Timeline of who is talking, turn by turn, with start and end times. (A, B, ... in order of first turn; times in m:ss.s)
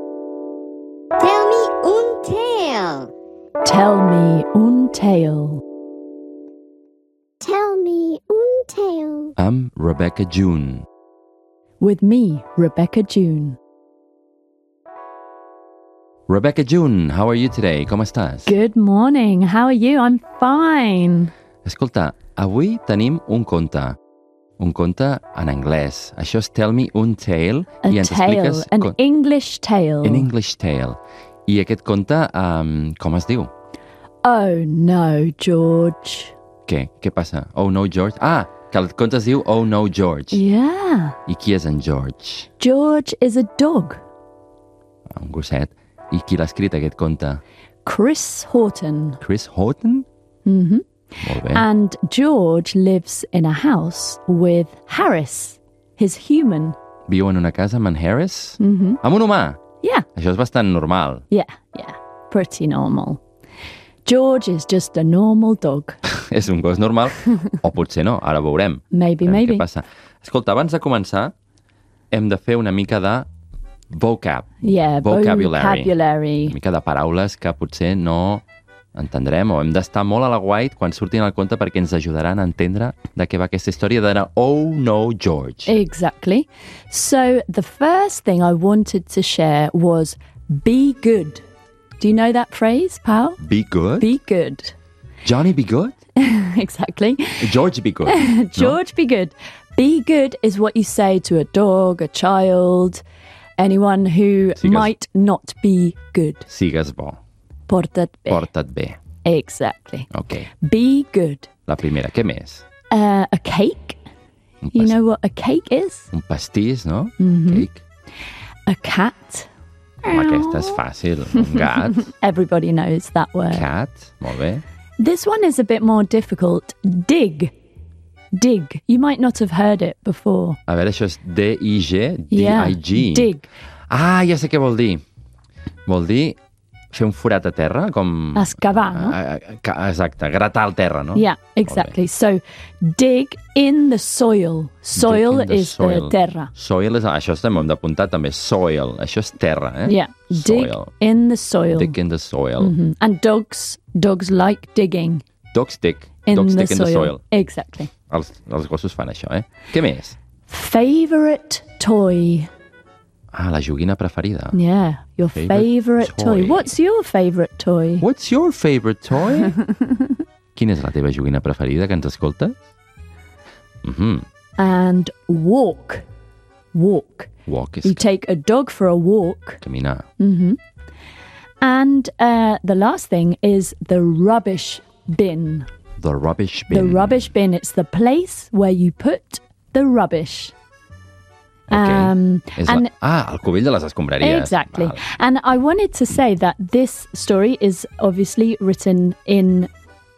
0:01.2-0:03.1 A
0:03.6-0:05.6 B
0:07.4-0:09.3 A
0:09.4-0:10.9 C
0:11.8-0:13.6 B
0:16.3-0:18.5 C
0:18.5-0:21.3 B
0:21.6-0:24.0 C
0:24.6-0:29.0 C
0:27.8-0:30.3 B
0:30.0-0:33.5 C
0:34.2-0:36.4 B
0:36.7-0:40.4 C
0:40.3-0:41.2 B
0:41.3-0:42.5 C
0:42.6-0:44.0 B
0:45.1-0:47.4 C
0:47.8-0:49.2 B
0:49.2-0:50.1 C
0:50.5-0:50.9 B
0:51.2-0:51.7 C
0:51.5-0:56.8 B
0:57.1-0:59.6 C
0:58.6-0:59.0 B
1:00.2-1:01.2 C
1:01.3-1:03.2 B
1:04.0-1:06.0 B
1:06.1-1:11.3 C
1:08.9-1:09.6 B
1:12.1-1:13.3 C
1:13.9-1:15.9 C
1:14.6-1:16.6 B
1:16.5-1:18.4 C
1:19.0-1:25.7 C
1:25.7-1:31.4 B
1:32.0-1:33.4 B
1:33.4-1:34.2 C
1:34.0-1:34.7 B
1:35.2-1:36.0 C
1:36.2-1:43.0 B
1:37.4-1:38.8 C
1:43.6-1:46.5 B
1:44.6-1:44.9 C
1:46.5-1:47.2 C
1:47.7-1:48.5 B
1:48.3-1:49.0 C
1:49.2-1:50.1 B
1:50.1-1:50.5 C
1:50.6-1:51.5 B
1:51.7-1:52.6 C
1:52.9-1:54.0 B
1:54.6-1:55.0 C
1:54.7-1:56.1 B
1:56.1-1:57.8 C
1:57.2-1:57.7 B
1:58.7-1:59.5 B
2:00.0-2:00.8 B
2:00.1-2:02.1 C
2:02.0-2:03.7 B
2:03.5-2:04.6 C
2:05.0-2:07.5 B
2:08.3-2:10.6 B
2:10.7-2:13.3 C
2:12.3-2:13.5 B
2:13.9-2:15.0 C
2:15.9-2:16.4 C
2:16.9-2:22.0 C
2:18.4-2:19.2 B
2:21.1-2:26.5 B
2:25.0-2:30.9 C
2:29.8-2:32.0 B
2:31.7-2:32.8 C
2:32.6-2:35.2 B
2:35.5-2:37.2 C
2:36.2-2:37.9 B
2:38.1-2:40.2 C
2:40.5-2:42.5 B
2:43.3-2:44.6 C
2:44.5-2:48.1 B
2:45.4-2:46.7 C
2:48.0-2:49.6 C
2:50.6-2:52.6 C
2:53.8-2:54.2 C
2:54.6-2:56.0 B
2:56.7-2:57.3 B
2:57.5-2:58.0 C
2:57.8-2:59.6 B
2:59.6-3:00.0 C
3:00.2-3:00.6 B
3:01.6-3:05.7 B
3:06.0-3:07.3 C
3:06.7-3:10.5 B
3:11.7-3:12.9 B
3:11.7-3:15.0 C
3:14.2-3:19.7 B